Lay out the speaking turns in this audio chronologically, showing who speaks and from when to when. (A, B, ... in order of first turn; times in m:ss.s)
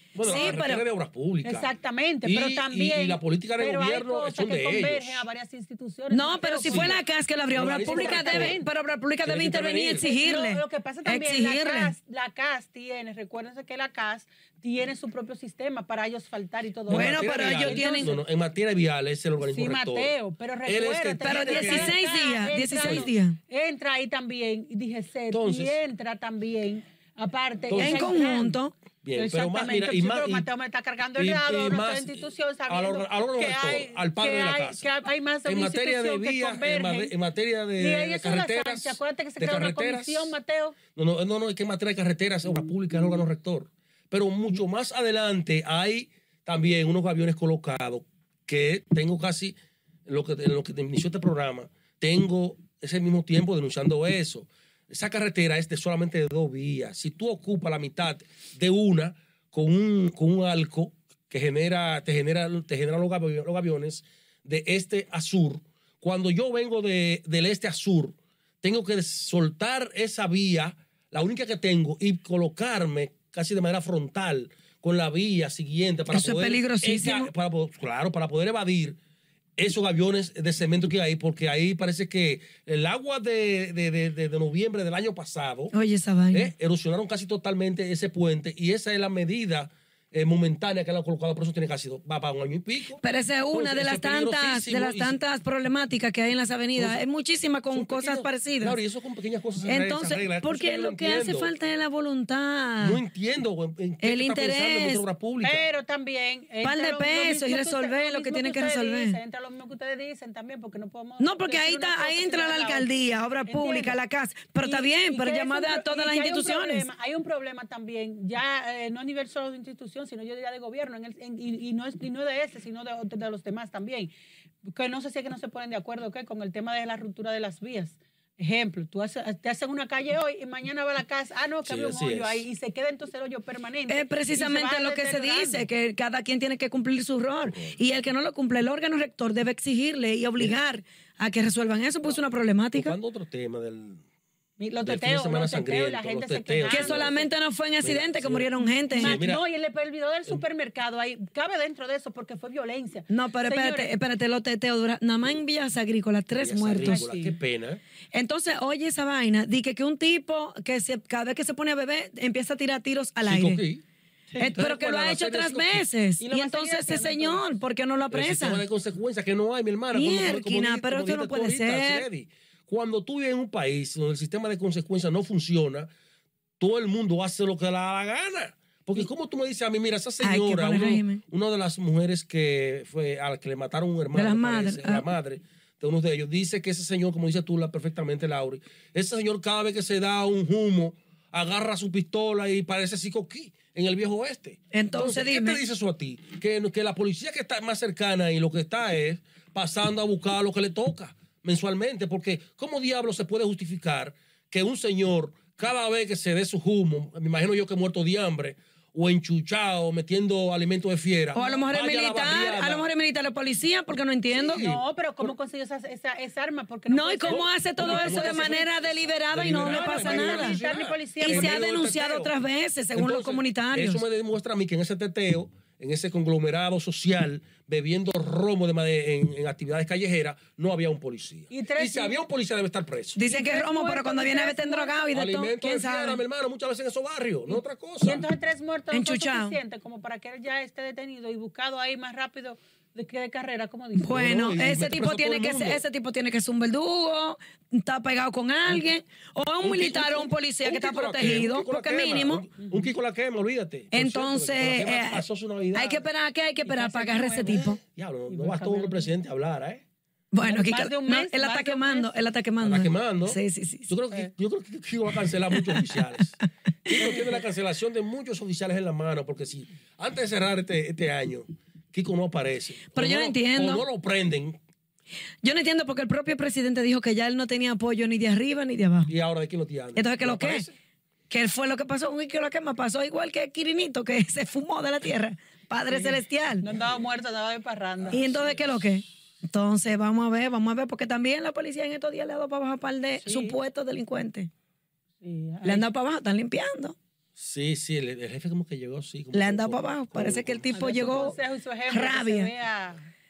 0:00.2-0:01.7 A
0:00.2-0:00.8 B
0:00.3-0:00.5 C
0:01.4-0:07.0 C
0:02.2-0:05.3 A
0:06.1-0:11.9 B
0:06.6-0:07.0 A
0:07.5-0:08.6 A
0:07.6-0:08.7 C
0:09.2-0:10.0 A
0:10.0-0:18.2 C
0:16.9-0:20.1 A
0:16.9-0:18.1 B
0:19.4-0:28.6 C
0:20.7-0:22.0 A
0:21.2-0:23.4 B
0:22.8-0:23.1 A
0:25.3-0:25.8 A
0:27.7-0:28.2 A
0:27.8-0:28.8 B
0:29.0-0:30.5 A
0:29.1-0:37.1 C
0:31.2-0:34.9 A
0:35.5-0:40.4 A
0:37.8-0:40.8 C
0:40.9-1:19.0 A
1:16.1-1:17.3 B
1:19.6-1:25.7 A
1:25.7-1:26.5 B
1:26.3-1:35.2 A
1:33.0-1:38.8 B
1:36.8-1:37.0 A
1:37.7-1:41.5 A
1:39.6-1:43.0 B
1:42.8-1:45.7 A
1:44.0-1:45.0 B
1:45.4-1:52.9 C
1:46.6-1:49.2 B
1:51.2-1:56.9 B
1:53.5-1:54.0 C
1:54.6-2:04.1 C
2:04.6-2:15.7 C
2:11.6-2:12.4 A
2:13.9-2:23.0 B
2:17.4-2:17.8 A
2:22.8-2:24.0 A
2:24.6-2:27.3 C
2:24.8-2:27.2 A
2:26.7-2:29.2 B
2:27.8-2:29.4 A
2:28.6-2:33.9 C
2:33.1-2:37.0 B
2:36.4-2:37.8 A
2:36.8-2:37.3 C
2:38.1-2:43.6 B
2:43.2-2:43.8 A
2:44.4-2:48.6 B
2:44.4-2:45.9 A
2:46.2-2:47.4 C
2:48.1-2:55.9 A
2:49.9-2:52.0 B
2:56.6-3:32.9 A
3:00.2-3:01.2 B
3:04.2-3:05.1 B
3:14.7-3:15.6 B
3:31.3-3:34.6 B
3:34.3-3:35.3 A
3:34.6-3:38.6 C
3:36.9-3:40.6 B
3:37.3-3:42.3 A
3:39.6-3:41.6 C
3:41.2-3:44.0 B
3:42.9-3:53.2 A
3:51.5-3:52.2 C
3:53.2-3:56.2 B
3:53.2-3:55.1 C
3:55.1-3:58.2 A
3:57.5-4:04.4 C
3:58.9-3:59.6 B
4:04.0-4:12.5 B
4:04.1-4:05.8 A
4:09.6-4:16.0 A
4:13.9-4:17.8 B
4:16.6-4:17.7 C
4:17.5-4:19.8 A
4:18.3-4:19.1 C
4:20.3-4:23.9 B
4:20.4-4:22.1 C
4:22.6-4:34.6 A
4:32.9-4:33.8 B
4:35.4-4:39.1 B
4:39.1-4:40.8 A
4:40.0-4:40.6 B
4:41.3-4:46.7 B
4:45.9-4:48.7 C
4:46.8-4:47.0 A
4:48.0-4:48.6 A
4:48.1-4:54.5 B
4:53.2-4:53.6 C
4:55.2-4:55.9 C
4:55.6-4:57.0 B
4:57.4-5:00.7 A
4:59.3-5:01.4 B
5:00.7-5:03.1 C
5:01.9-5:02.5 B